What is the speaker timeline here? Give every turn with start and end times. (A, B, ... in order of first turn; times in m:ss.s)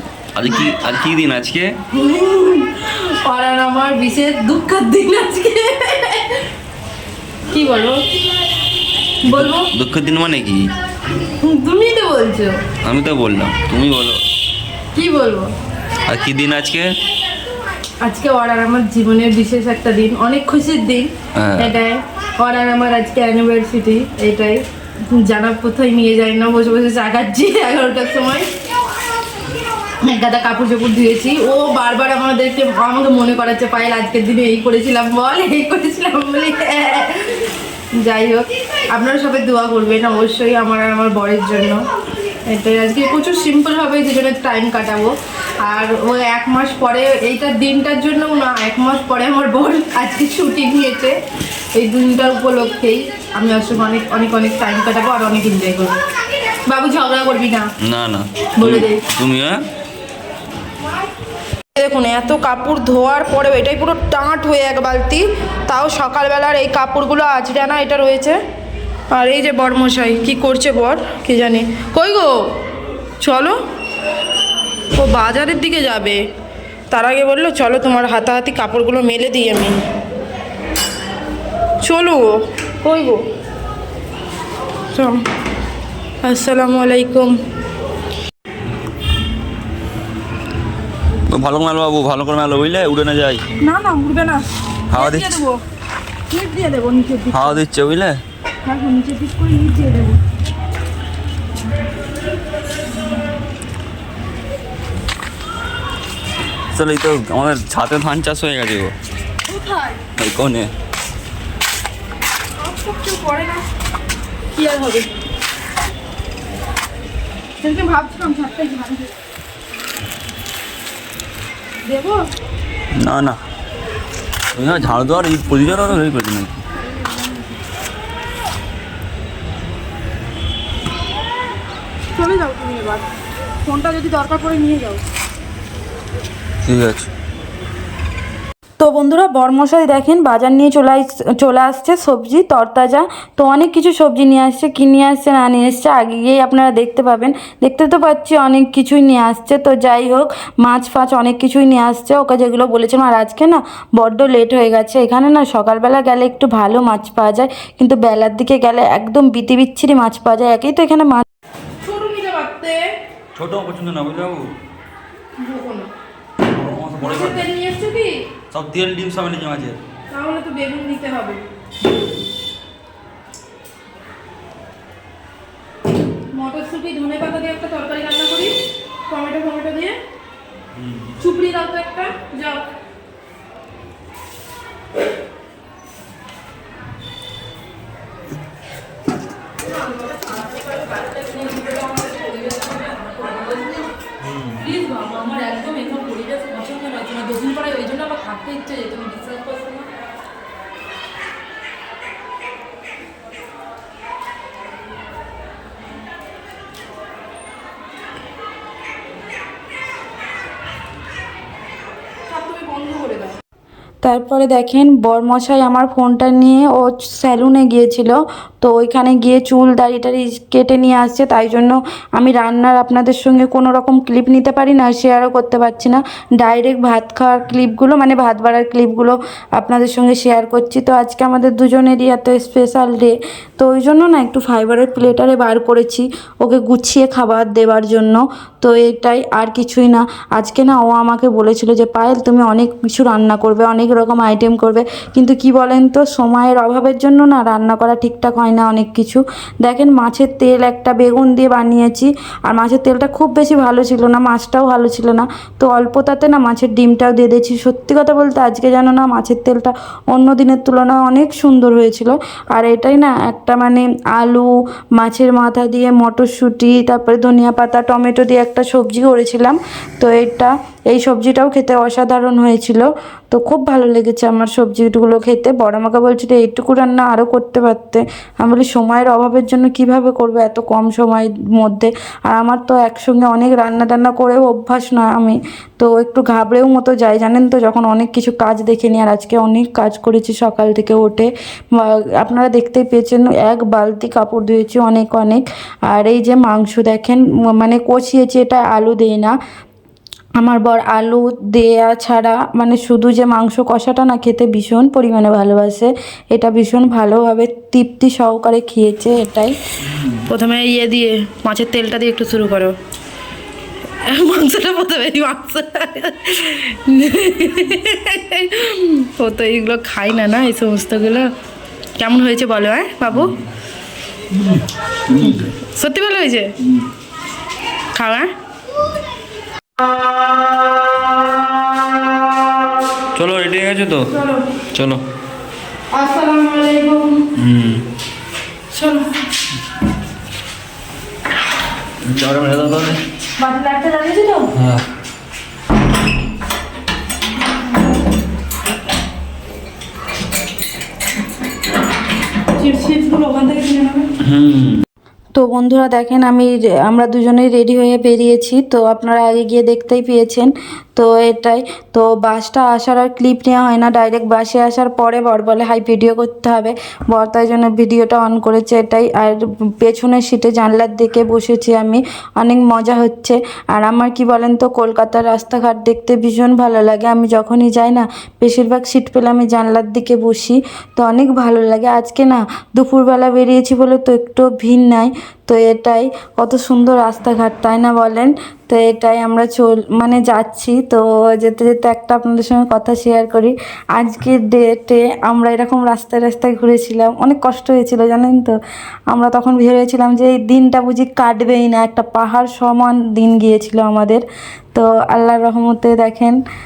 0:00.3-0:01.7 A
0:01.9-0:06.4 B
0:07.5-0:08.0 B
0:09.2-0:10.7 A
0:09.3-0:09.7 B
0:11.4-0:12.6 B
0:12.8-0:14.2 A
0:15.0-0:15.5 B
0:16.1-0:16.9 A
0:18.0-0:28.5 B
0:21.4-0:21.8 A
0:30.0-0:37.4 B
0:38.0-0:41.8 B
0:42.5-0:51.1 B
0:51.8-0:55.9 B
0:56.7-0:57.7 B
0:57.8-0:59.6 A
0:58.6-0:59.0 B
1:01.8-1:08.4 B
1:09.1-1:12.3 B
1:13.2-1:13.5 B
1:15.0-1:16.2 B
1:16.9-1:19.7 B
1:21.8-1:23.2 B
1:26.2-1:27.3 B
1:31.3-1:33.4 A
1:33.6-1:34.4 B
1:34.9-1:35.4 A
1:34.9-1:35.6 B
1:36.3-1:37.6 B
1:37.3-1:38.2 A
1:38.7-1:40.2 B
1:46.7-1:48.9 A
1:49.5-1:50.0 C
1:50.2-1:50.7 A
1:52.6-1:53.6 B
1:52.7-1:53.6 C
1:54.6-1:55.0 C
1:54.6-1:55.0 B
1:57.6-1:59.0 C
1:57.7-1:59.0 B
2:01.9-2:02.1 B
2:03.0-2:03.4 A
2:04.6-2:06.6 A
2:12.2-2:13.0 B
2:13.7-2:15.0 B
2:16.6-2:17.1 A
2:18.8-2:41.2 C
2:41.8-2:42.8 B
2:42.4-2:42.6 C
2:43.4-2:44.5 A
2:45.4-2:45.8 B
2:46.4-2:47.5 A
2:47.0-2:48.1 C
2:47.0-2:48.0 B
2:48.5-2:49.8 A
2:50.1-2:51.4 C
2:50.2-2:51.3 B
2:56.3-2:58.5 C
2:56.4-2:58.5 B
2:59.1-2:59.9 C
2:59.1-2:59.9 B
3:00.8-3:01.1 A
3:01.2-3:02.6 B
3:10.0-3:13.9 B
3:14.3-3:14.6 A
3:14.7-3:19.8 B
3:15.1-3:15.6 C
3:16.2-3:19.8 C
3:32.3-3:33.3 B
3:34.0-4:59.4 C
5:00.4-5:09.6 C
5:10.3-5:12.7 C
5:10.8-5:11.4 B
5:12.2-5:12.5 B
5:14.1-5:21.2 B
5:22.0-5:23.3 B
5:23.1-5:23.4 A
5:24.3-5:24.6 A
5:25.1-5:25.5 A
5:25.2-5:26.5 B
5:28.0-5:28.3 B
5:33.2-5:34.1 A
5:34.7-5:35.0 A
5:35.9-5:37.2 B
5:37.4-5:37.8 A
5:42.0-5:43.0 A
5:43.4-5:44.5 B
5:43.5-5:43.9 C
5:44.6-5:44.8 A
5:52.6-5:54.0 B
5:52.8-5:54.0 C
5:54.2-5:54.8 A
5:55.4-6:38.6 C
6:39.1-6:46.4 C